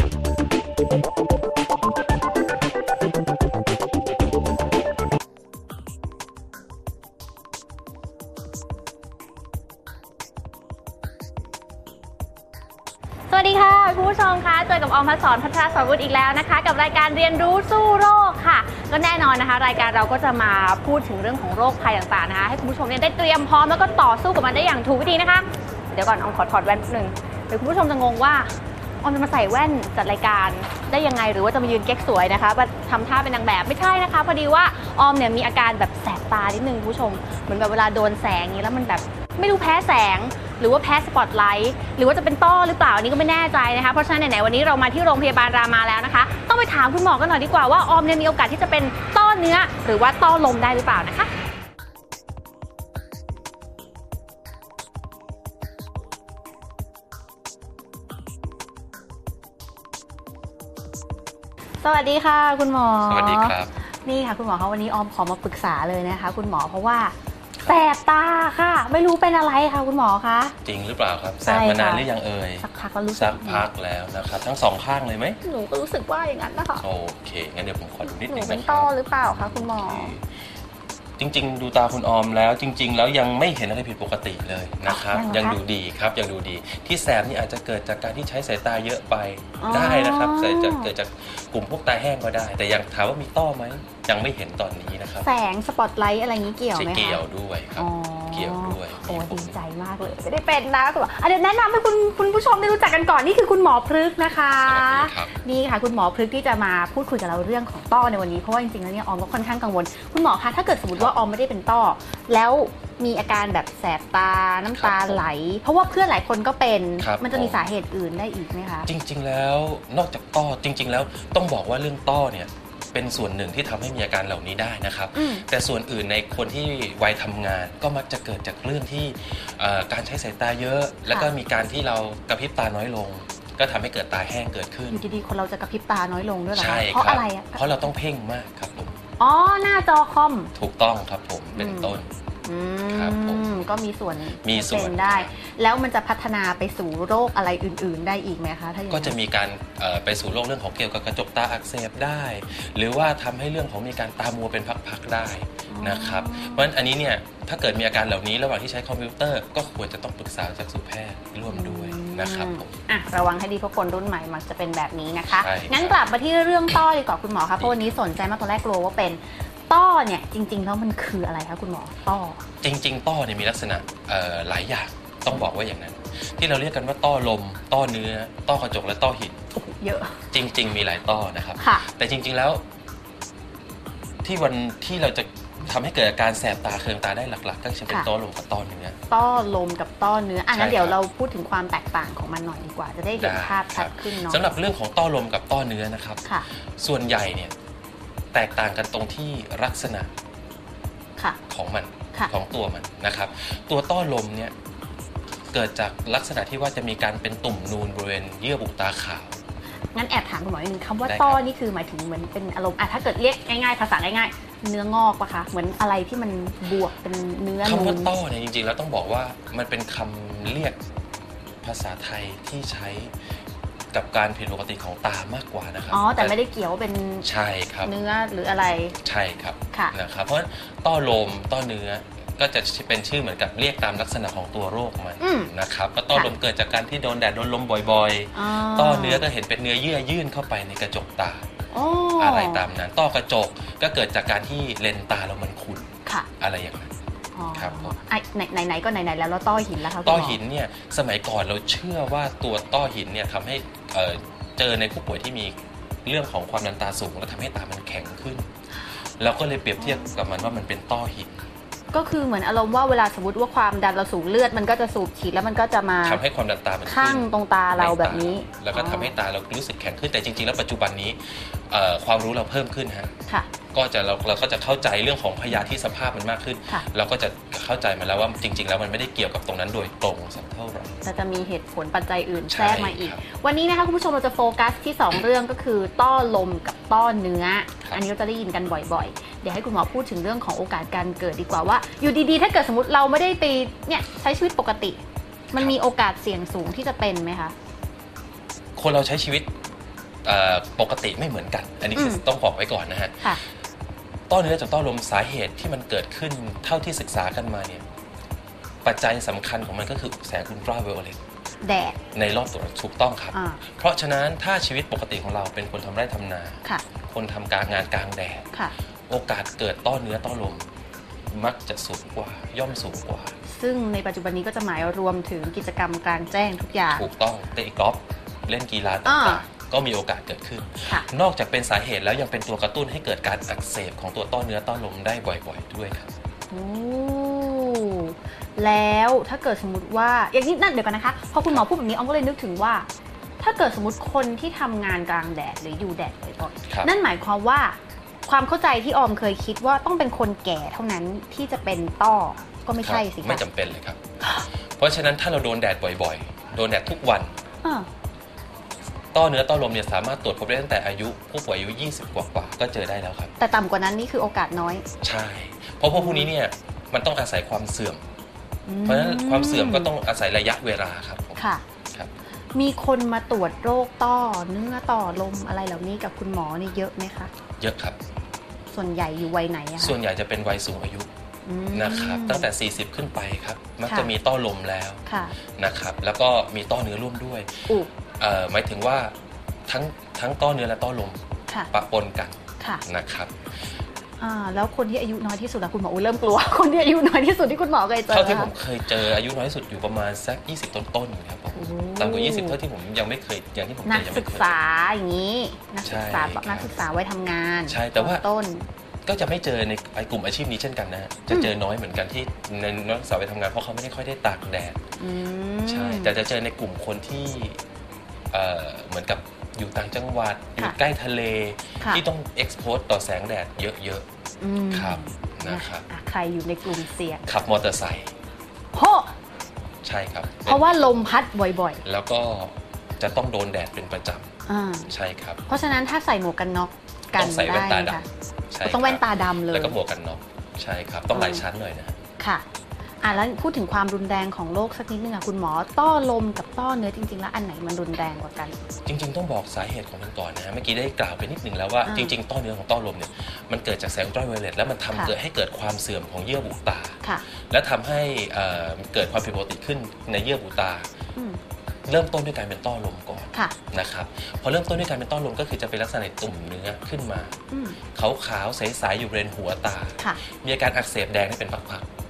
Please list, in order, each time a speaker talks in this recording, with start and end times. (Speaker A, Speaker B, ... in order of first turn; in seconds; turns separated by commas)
Speaker A: 13.3-51.3, Speaker A: 61.8-70.5, Speaker B: 63.1-63.7, Speaker B: 70.7-75.4, Speaker A: 71.5-72.1, Speaker A: 72.6-73.6, Speaker A: 75.4-76.8, Speaker B: 76.8-80.2, Speaker A: 78.0-80.1, Speaker B: 81.2-95.3, Speaker A: 84.9-85.6, Speaker A: 89.6-90.9, Speaker A: 95.2-97.2, Speaker B: 96.8-99.6, Speaker A: 97.8-118.9, Speaker B: 104.7-105.4, Speaker B: 114.7-115.3, Speaker B: 117.0-117.6, Speaker B: 118.9-135.0, Speaker A: 125.2-125.5, Speaker A: 134.9-137.9, Speaker B: 136.5-139.0, Speaker A: 139.2-140.5, Speaker B: 140.6-142.1, Speaker A: 141.6-149.2, Speaker B: 142.9-143.6, Speaker B: 144.4-145.3, Speaker B: 148.9-162.7, Speaker A: 155.7-156.7, Speaker A: 161.5-172.4, Speaker B: 165.3-166.0, Speaker B: 172.6-179.4, Speaker A: 179.5-180.2, Speaker B: 180.3-182.6, Speaker A: 181.6-181.9, Speaker B: 184.2-189.0, Speaker A: 189.1-194.4, Speaker B: 190.5-191.0, Speaker B: 193.2-196.2, Speaker B: 196.8-197.5, Speaker B: 198.3-200.1, Speaker B: 201.5-204.5, Speaker B: 205.5-209.4, Speaker A: 209.9-218.1, Speaker B: 211.1-211.4, Speaker B: 217.6-220.8, Speaker B: 221.6-223.1, Speaker B: 223.9-226.3, Speaker A: 225.9-227.3, Speaker B: 227.2-227.9, Speaker A: 227.8-228.9, Speaker B: 229.0-241.4, Speaker A: 235.2-235.5, Speaker A: 238.3-239.2, Speaker A: 241.7-242.7, Speaker B: 242.2-245.9, Speaker B: 246.4-246.9, Speaker A: 247.3-250.4, Speaker B: 247.6-247.9, Speaker B: 250.0-258.5, Speaker B: 259.2-261.4, Speaker A: 259.8-260.5, Speaker A: 261.9-266.2, Speaker B: 266.1-273.1, Speaker A: 266.9-269.1, Speaker B: 273.7-280.9, Speaker A: 281.0-295.0, Speaker B: 282.5-283.2, Speaker A: 295.5-297.5, Speaker B: 298.8-299.5, Speaker B: 300.2-303.3, Speaker A: 302.0-302.2, Speaker B: 304.3-307.8, Speaker B: 308.8-311.2, Speaker A: 311.6-312.0, Speaker B: 312.1-318.5, Speaker A: 313.3-313.6, Speaker B: 319.1-320.6, Speaker B: 321.3-323.3, Speaker A: 323.5-327.0, Speaker B: 326.9-336.1, Speaker A: 329.1-329.4, Speaker A: 336.5-342.9, Speaker A: 343.4-353.4, Speaker B: 352.8-354.0, Speaker B: 354.8-357.3, Speaker B: 359.1-363.3, Speaker A: 363.4-364.8, Speaker B: 365.0-368.1, Speaker A: 365.9-366.3, Speaker A: 368.7-369.9, Speaker B: 368.9-371.4, Speaker A: 371.4-371.6, Speaker A: 372.6-377.3, Speaker B: 377.6-378.0, Speaker A: 378.7-380.0, Speaker B: 379.8-381.1, Speaker A: 381.5-382.5, Speaker B: 381.7-385.0, Speaker A: 385.1-385.4, Speaker B: 385.6-387.7, Speaker B: 388.2-389.1, Speaker B: 389.7-391.2, Speaker B: 391.7-393.3, Speaker A: 394.2-398.5, Speaker B: 398.1-404.6, Speaker A: 401.6-402.6, Speaker A: 403.9-408.7, Speaker B: 405.8-406.7, Speaker B: 407.7-408.2, Speaker B: 409.1-414.8, Speaker A: 415.0-416.1, Speaker B: 415.7-417.6, Speaker B: 418.3-424.1, Speaker A: 424.4-427.3, Speaker B: 424.7-425.9, Speaker B: 427.3-428.1, Speaker A: 428.7-429.1, Speaker B: 429.8-430.8, Speaker A: 430.4-431.8, Speaker B: 431.8-434.3, Speaker A: 434.5-434.9, Speaker B: 434.9-435.5, Speaker A: 435.5-438.1, Speaker B: 437.1-441.9, Speaker A: 438.6-439.8, Speaker A: 441.1-441.4, Speaker A: 442.2-442.4, Speaker A: 443.0-448.6, Speaker B: 448.9-457.0, Speaker A: 451.8-452.1, Speaker B: 457.5-460.9, Speaker B: 461.9-467.4, Speaker A: 467.5-467.8, Speaker B: 467.9-471.9